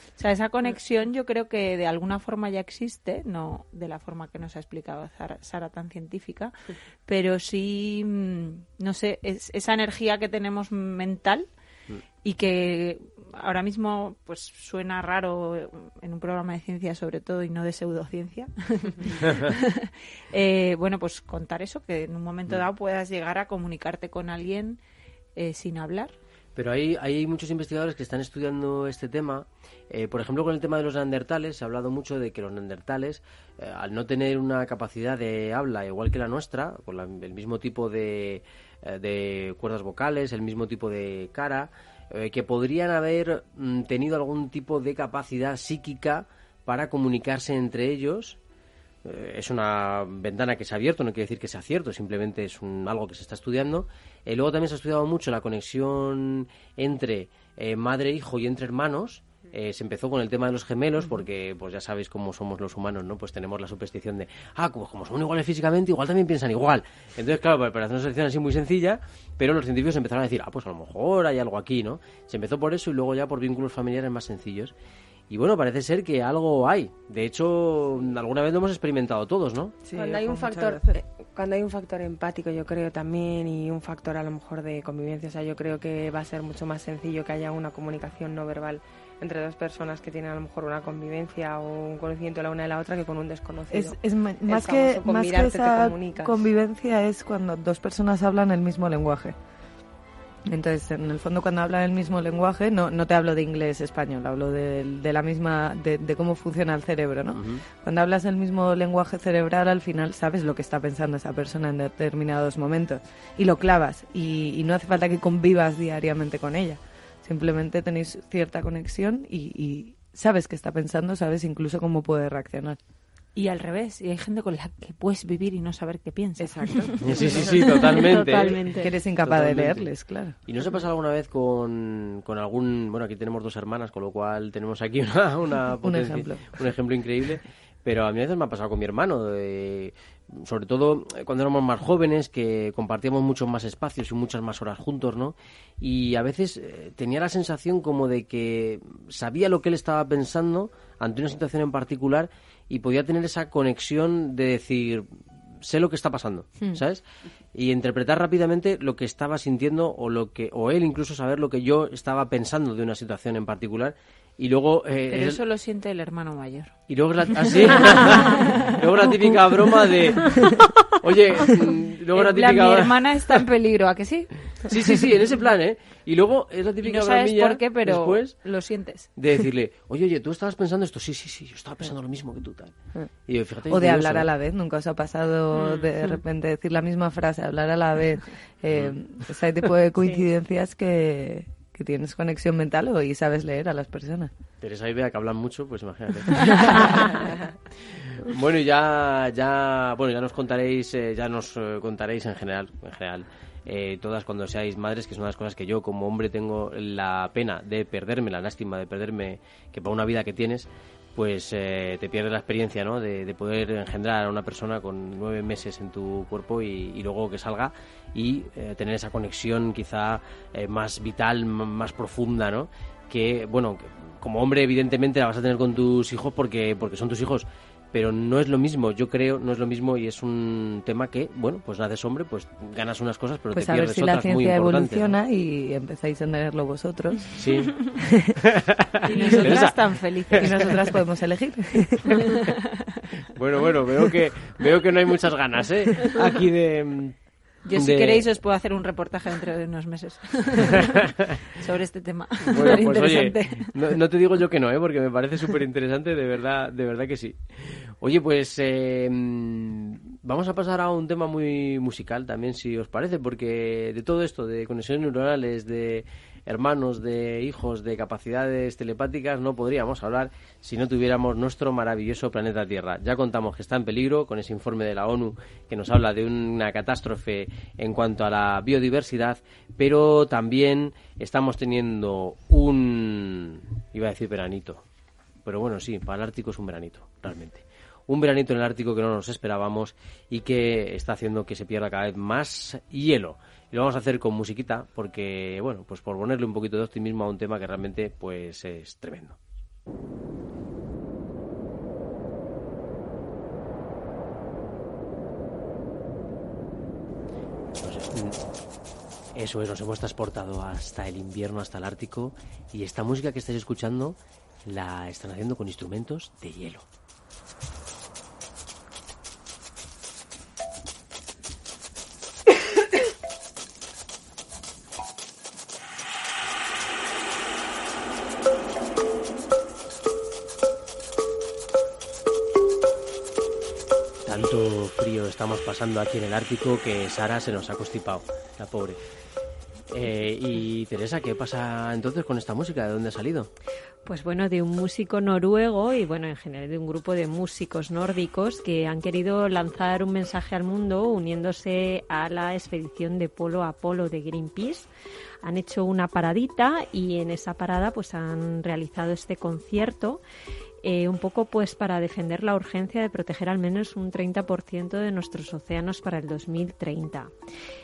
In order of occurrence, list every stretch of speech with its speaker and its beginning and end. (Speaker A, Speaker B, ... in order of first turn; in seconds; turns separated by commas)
Speaker A: 0.2-6.5, Speaker A: 7.0-11.5, Speaker A: 12.2-24.8, Speaker A: 25.4-26.1, Speaker B: 26.6-48.4, Speaker B: 49.0-74.7, Speaker B: 75.3-79.8, Speaker C: 79.9-96.4, Speaker D: 79.9-81.0, Speaker D: 93.7-99.3, Speaker D: 100.5-122.8, Speaker B: 107.3-107.6, Speaker A: 123.3-127.4, Speaker D: 126.4-126.9, Speaker B: 127.0-128.6, Speaker E: 127.8-128.9, Speaker D: 128.7-130.3, Speaker B: 129.2-129.9, Speaker B: 130.4-155.1, Speaker D: 135.8-136.6, Speaker B: 155.6-157.0, Speaker B: 157.5-165.4, Speaker A: 165.1-166.7, Speaker B: 166.9-170.4, Speaker A: 167.4-168.7, Speaker B: 171.0-172.9, Speaker A: 172.1-174.7, Speaker B: 174.6-178.3, Speaker A: 176.8-179.1, Speaker B: 179.2-182.7, Speaker B: 183.3-184.3, Speaker D: 183.7-194.3, Speaker B: 194.6-197.2, Speaker B: 197.8-235.1, Speaker D: 233.5-238.3, Speaker B: 237.4-237.8, Speaker B: 238.6-240.8, Speaker A: 239.0-240.8, Speaker D: 239.2-239.7, Speaker D: 240.4-242.2, Speaker B: 243.3-247.2, Speaker A: 247.6-251.0, Speaker B: 247.7-248.2, Speaker A: 251.6-253.8, Speaker B: 252.5-284.8, Speaker B: 285.4-299.4, Speaker B: 307.8-308.4, Speaker B: 309.3-316.8, Speaker B: 334.2-339.0, Speaker B: 339.9-343.5, Speaker E: 344.1-354.9, Speaker E: 355.4-360.2, Speaker E: 360.8-367.3